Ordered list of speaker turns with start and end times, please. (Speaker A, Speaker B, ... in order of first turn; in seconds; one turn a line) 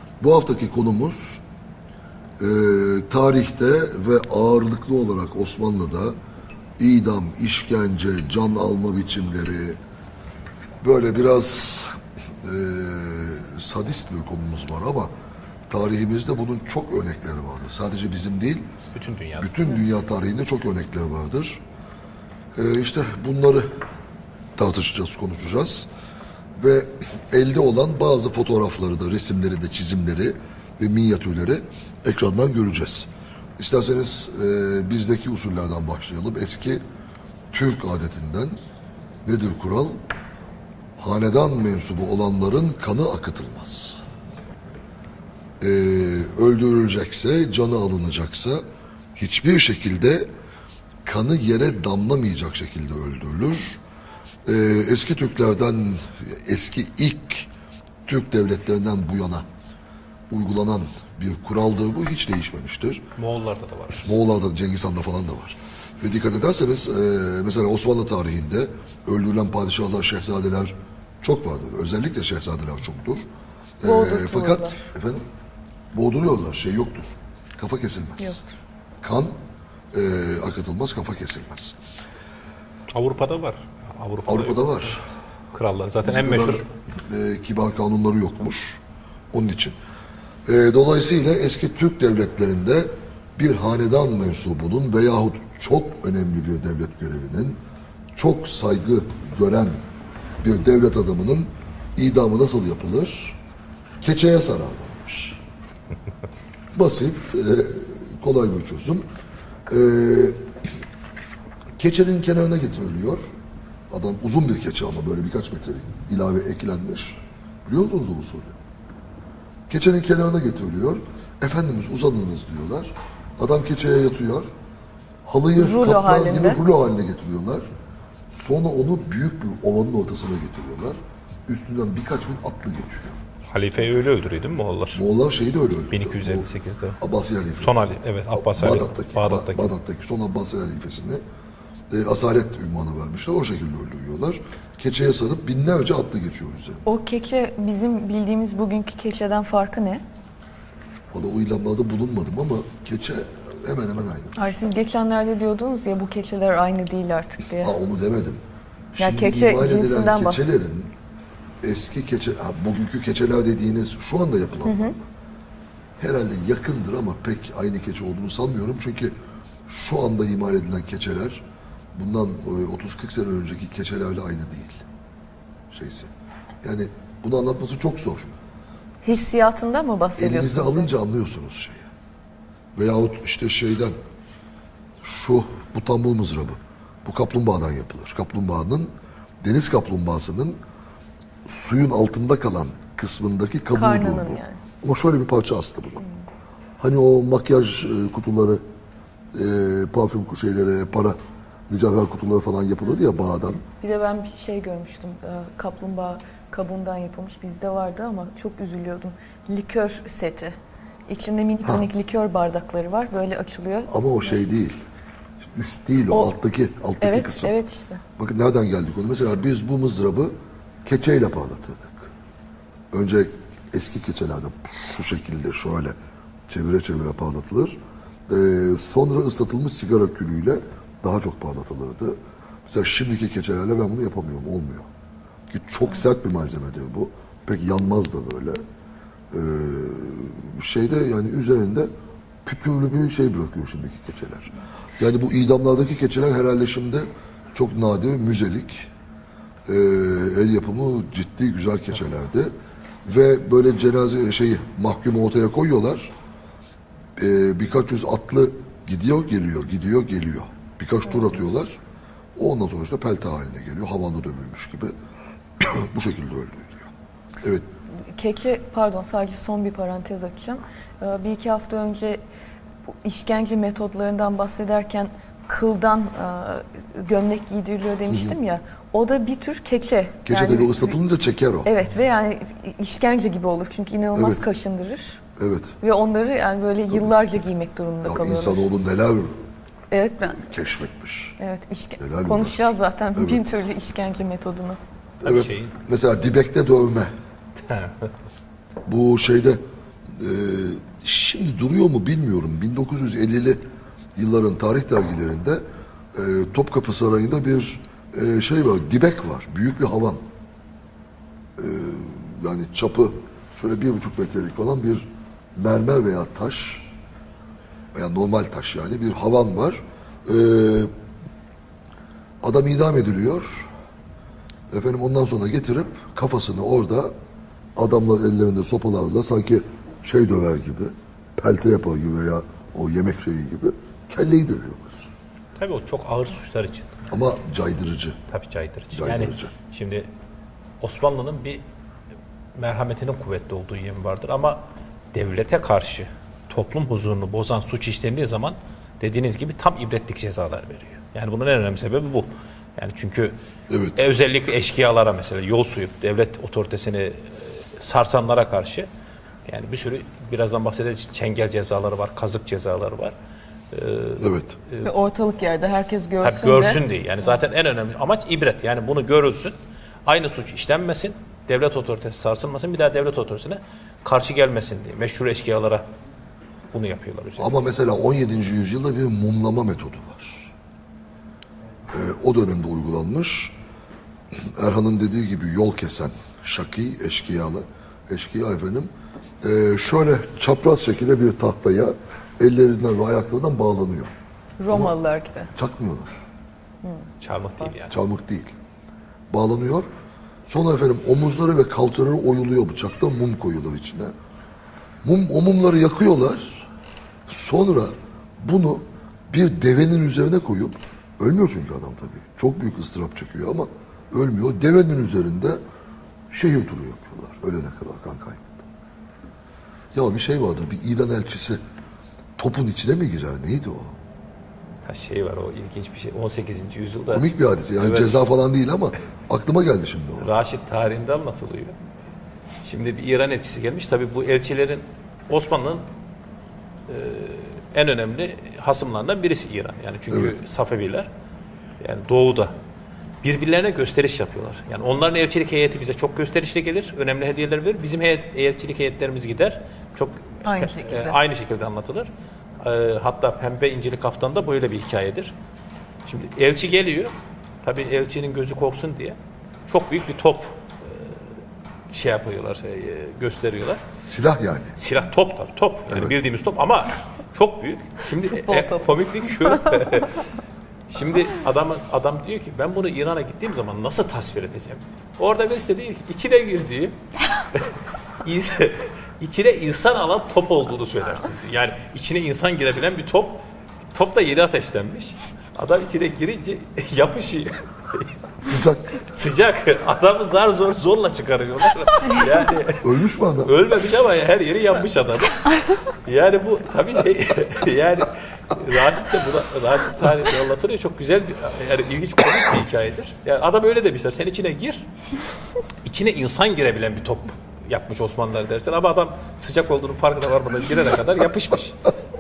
Speaker A: 0.2-1.4
Speaker A: 2.4-6.2
Speaker A: 6.8-9.8
Speaker A: 10.8-11.9
Speaker A: 12.4-15.1
Speaker A: 15.7-18.7
Speaker B: 18.9-19.5
Speaker A: 19.4-21.6
Speaker A: 22.6-23.7
Speaker A: 24.6-25.9
Speaker A: 26.6-36.8
Speaker A: 37.5-38.6
Speaker A: 39.2-40.0
Speaker A: 41.0-44.0
Speaker A: 45.6-48.6
Speaker A: 49.2-50.3
Speaker A: 51.0-53.8
Speaker A: 54.5-57.5
Speaker A: 58.1-59.5
Speaker A: 60.3-63.0
Speaker B: 63.2-64.1
Speaker A: 64.0-73.3
Speaker A: 73.8-75.2
Speaker C: 73.8-74.9
Speaker A: 75.9-78.4
Speaker A: 79.0-79.3
Speaker A: 79.9-81.8
Speaker B: 82.9-85.0
Speaker A: 84.2-85.0
Speaker B: 85.5-86.6
Speaker A: 86.0-88.8
Speaker A: 89.3-89.8
Speaker A: 90.5-97.6
Speaker A: 98.2-99.8
Speaker A: 100.4-103.4
Speaker A: 104.0-105.4
Speaker A: 106.7-109.1
Speaker A: 109.7-110.5
Speaker A: 111.8-113.2
Speaker A: 113.9-118.5
Speaker A: 119.7-124.5
Speaker A: 125.3-127.7
Speaker C: 125.6-126.6
Speaker A: 128.3-133.2
Speaker B: 133.5-135.0
Speaker A: 134.9-137.8
Speaker B: 135.9-137.0
Speaker B: 137.6-139.8
Speaker A: 138.3-141.2
Speaker A: 141.9-146.9
Speaker C: 146.8-150.0
Speaker A: 151.1-154.4
Speaker C: 154.4-157.7
Speaker A: 157.6-158.4
Speaker A: 158.9-160.9
Speaker C: 159.0-160.4
Speaker A: 161.6-165.1
Speaker C: 164.6-164.9
Speaker A: 166.0-169.1
Speaker A: 169.7-171.4
Speaker A: 171.9-174.8
Speaker A: 175.7-176.1
Speaker A: 176.6-178.3
Speaker C: 179.0-180.9
Speaker A: 180.2-181.9
Speaker A: 182.8-184.0
Speaker A: 185.0-188.9
Speaker A: 189.4-190.6
Speaker A: 191.5-196.0
Speaker C: 193.7-194.6
Speaker A: 196.8-198.6
Speaker A: 199.3-201.2
Speaker A: 201.7-203.6
Speaker C: 203.8-210.6
Speaker C: 211.1-214.4
Speaker A: 213.9-214.8
Speaker A: 215.5-217.5
Speaker C: 216.1-216.4
Speaker C: 217.0-218.0
Speaker A: 218.2-220.3
Speaker A: 220.8-222.1
Speaker A: 222.9-226.0
Speaker A: 226.5-232.2
Speaker A: 232.7-234.9
Speaker A: 235.5-238.6
Speaker A: 239.3-241.9
Speaker A: 242.4-248.9
Speaker A: 249.7-252.5
Speaker A: 253.1-256.1
Speaker A: 257.2-261.8
Speaker A: 262.4-264.9
Speaker A: 265.6-266.9
Speaker C: 268.1-272.2
Speaker C: 272.9-281.0
Speaker A: 280.2-281.7
Speaker C: 281.6-285.2
Speaker A: 284.1-284.4
Speaker A: 285.4-285.8
Speaker C: 285.8-288.7
Speaker A: 288.0-289.4
Speaker C: 289.9-290.4
Speaker A: 290.3-291.4
Speaker C: 291.4-294.8
Speaker A: 292.0-293.4
Speaker A: 295.2-297.1
Speaker B: 295.2-295.8
Speaker B: 297.6-298.1
Speaker A: 298.9-299.6
Speaker A: 300.2-303.6
Speaker A: 304.2-305.6
Speaker A: 306.1-310.2
Speaker A: 311.6-316.9
Speaker A: 317.9-320.9
Speaker A: 322.4-323.7
Speaker A: 324.7-327.1
Speaker A: 327.8-335.1
Speaker B: 335.6-336.9
Speaker A: 337.1-338.2
Speaker B: 338.3-340.1
Speaker A: 338.9-339.5
Speaker B: 340.8-341.6
Speaker B: 342.6-344.6
Speaker B: 345.1-353.4
Speaker A: 353.7-354.0
Speaker B: 354.0-358.9
Speaker B: 359.5-363.1
Speaker B: 363.7-364.9
Speaker A: 364.2-364.6
Speaker C: 364.8-366.8
Speaker B: 366.2-369.5
Speaker B: 370.1-375.9
Speaker B: 376.7-377.5
Speaker A: 377.4-380.5
Speaker A: 381.9-383.6
Speaker A: 384.3-388.9
Speaker A: 389.4-394.1
Speaker C: 394.6-395.5
Speaker A: 395.5-396.1
Speaker B: 397.2-398.0
Speaker A: 397.9-398.5
Speaker A: 399.3-399.9
Speaker A: 400.5-404.1
Speaker A: 405.0-406.7
Speaker A: 407.3-415.6
Speaker A: 416.3-418.7
Speaker A: 419.9-421.6
Speaker A: 422.4-424.0
Speaker B: 424.9-427.3
Speaker A: 427.1-430.3
Speaker B: 427.8-428.3
Speaker B: 430.2-431.8
Speaker B: 432.6-435.8
Speaker B: 436.9-441.1
Speaker A: 440.1-440.4
Speaker B: 441.8-442.5
Speaker B: 443.2-452.1
Speaker C: 450.4-451.2
Speaker B: 452.6-455.3
Speaker B: 456.1-461.2
Speaker B: 461.9-463.8
Speaker A: 464.0-464.8
Speaker B: 464.8-470.3
Speaker C: 468.3-468.9
Speaker B: 470.9-477.0
Speaker B: 477.6-483.4
Speaker B: 483.9-488.4
Speaker A: 488.4-488.9
Speaker B: 489.0-492.9
Speaker A: 492.8-493.5
Speaker B: 493.4-504.9
Speaker B: 505.8-511.8